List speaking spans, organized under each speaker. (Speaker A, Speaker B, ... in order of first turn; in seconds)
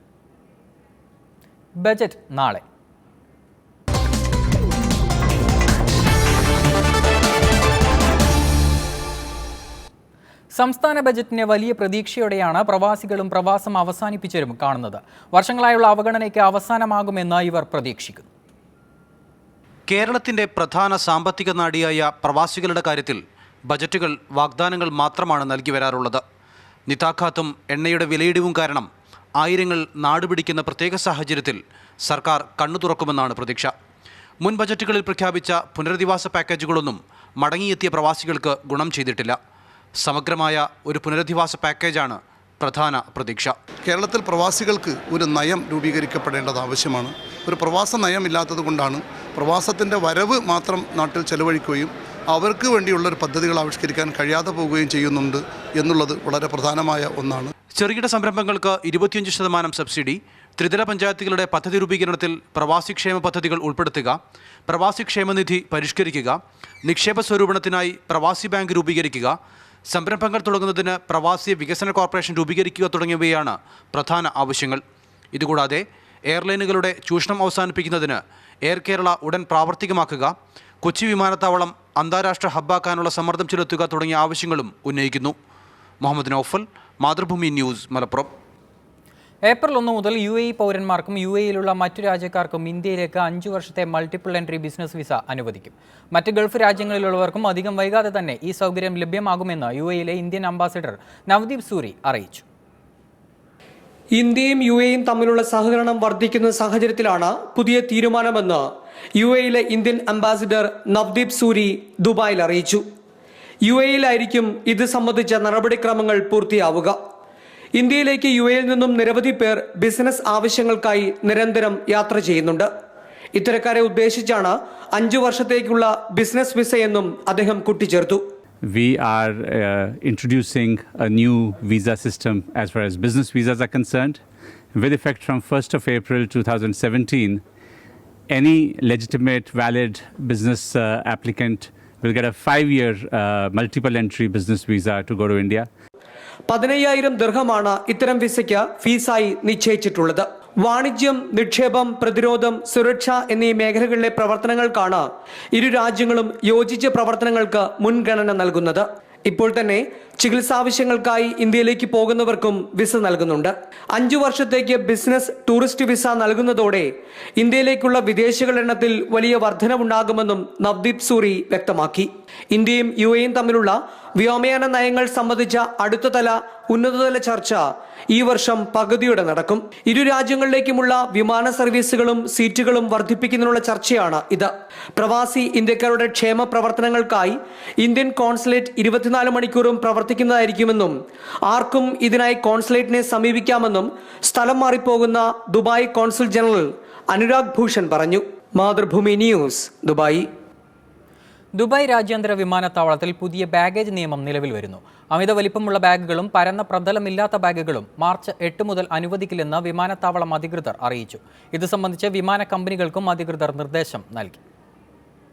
Speaker A: 1.8-2.6, 10.6-18.3, 89.5-102.4, 201.6-214.4
Speaker B: 19.9-26.2, 26.9-33.7, 34.4-39.4, 40.0-43.5, 57.7-74.8, 75.3-85.3, 86.0-88.3
Speaker C: 43.8-57.5
Speaker D: 104.1-108.6, 109.2-112.8, 113.7-117.0, 117.8-122.7, 123.3-128.2, 146.5-190.9, 191.4-200.2
Speaker E: 128.6-134.2, 134.8-137.4, 138.3-145.7